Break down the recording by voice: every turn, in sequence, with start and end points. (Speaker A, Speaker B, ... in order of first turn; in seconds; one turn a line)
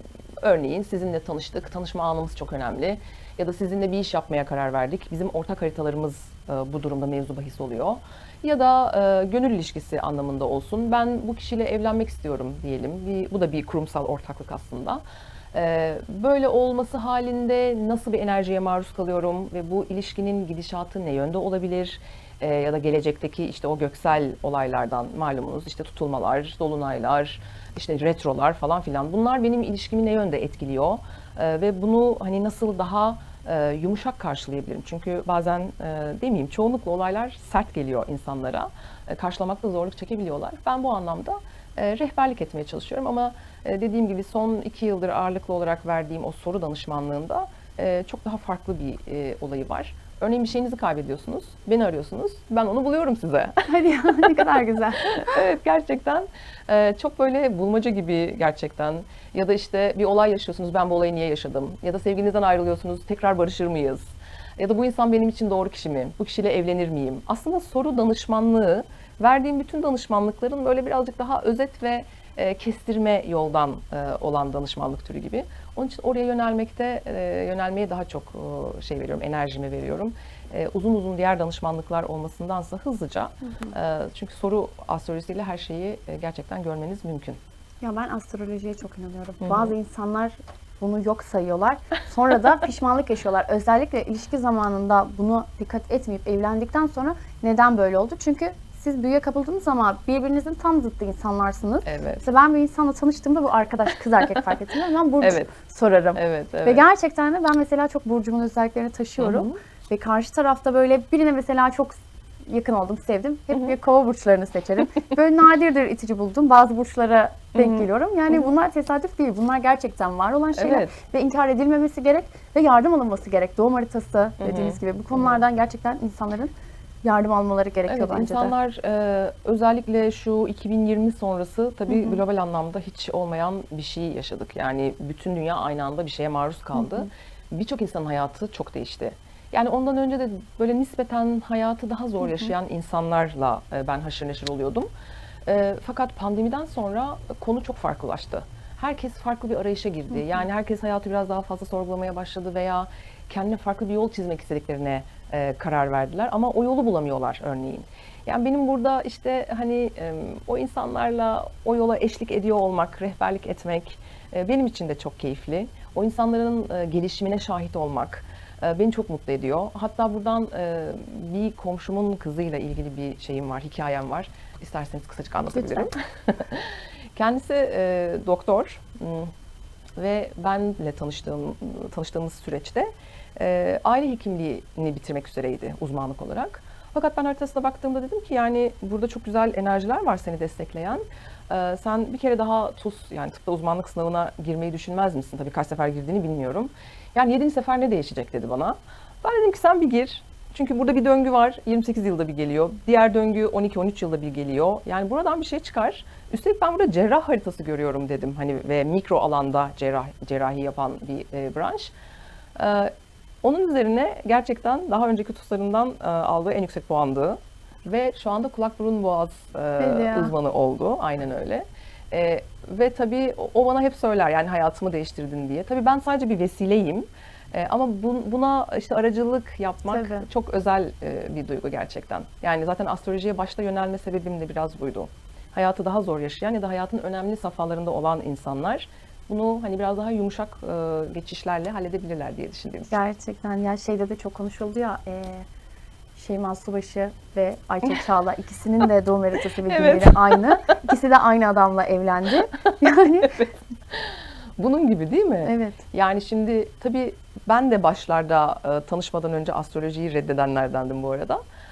Speaker A: 0.4-15.0
Speaker A: 15.5-87.4
Speaker B: 53.7-55.4
Speaker B: 87.8-128.5
Speaker A: 89.4-89.7
Speaker A: 101.8-102.2
Speaker A: 105.2-105.5
Speaker A: 106.1-106.8
Speaker A: 109.2-109.5
Speaker A: 117.5-117.8
Speaker A: 120.5-120.9
Speaker A: 124.4-125.4
Speaker A: 127.9-144.9
Speaker B: 131.9-132.2
Speaker A: 145.4-179.3
Speaker B: 175.5-175.9
Speaker A: 180.0-211.9
Speaker A: 212.6-242.9
Speaker B: 219.8-220.3
Speaker B: 229.9-230.3
Speaker B: 242.9-245.4
Speaker B: 246.1-253.5
Speaker A: 249.7-250.7
Speaker A: 253.2-261.4
Speaker B: 255.4-255.8